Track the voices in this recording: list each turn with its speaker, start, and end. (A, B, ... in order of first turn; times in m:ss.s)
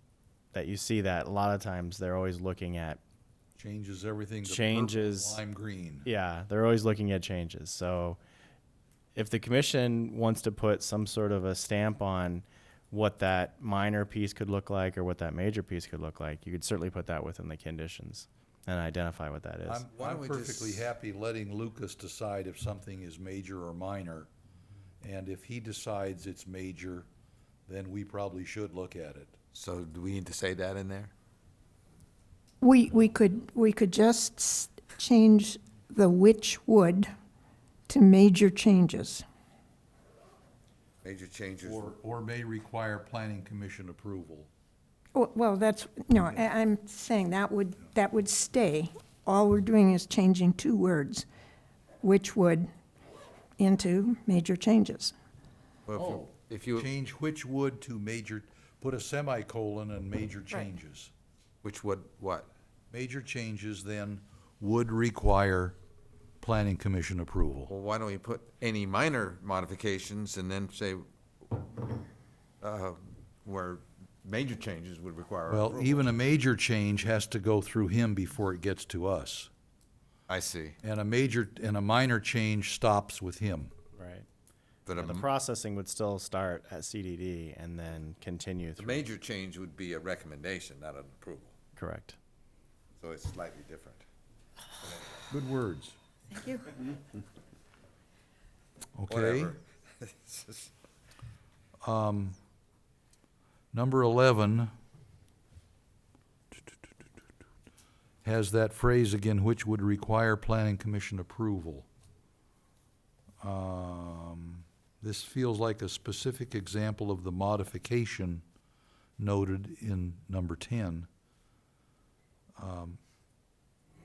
0:00.5-0:03.0 A
0:03.6-0:06.1 B
0:04.4-0:05.4 A
0:06.0-0:08.2 A
0:09.1-0:19.8 A
0:19.6-0:24.3 B
0:19.9-0:20.9 C
0:25.0-0:27.1 B
0:27.7-0:29.4 B
0:29.5-0:31.1 C
0:32.6-0:37.1 D
0:37.9-0:39.2 D
0:41.0-0:41.9 C
0:41.6-0:44.5 B
0:45.1-0:51.3 D
0:52.0-0:52.7 D
0:53.6-0:55.1 D
0:55.9-0:56.9 C
0:56.0-1:01.1 B
1:01.6-1:02.5 C
1:02.9-1:05.8 B
1:06.4-1:07.7 B
1:07.7-1:11.7 C
1:12.6-1:16.1 C
1:15.5-1:19.5 B
1:20.3-1:20.8 C
1:20.8-1:23.7 B
1:23.9-1:24.2 A
1:24.8-1:25.3 C
1:25.0-1:29.0 A
1:28.8-1:31.6 C
1:31.8-1:32.2 A
1:33.0-1:34.0 C
1:34.8-1:35.2 C
1:35.3-1:36.0 B
1:36.3-1:36.6 D
1:39.0-1:39.6 B
1:39.1-1:40.7 C
1:41.8-1:42.4 B
1:43.7-1:44.7 B
1:48.2-1:51.9 B
1:53.4-1:58.4 B
1:59.2-2:01.1 B
2:02.6-2:03.0 B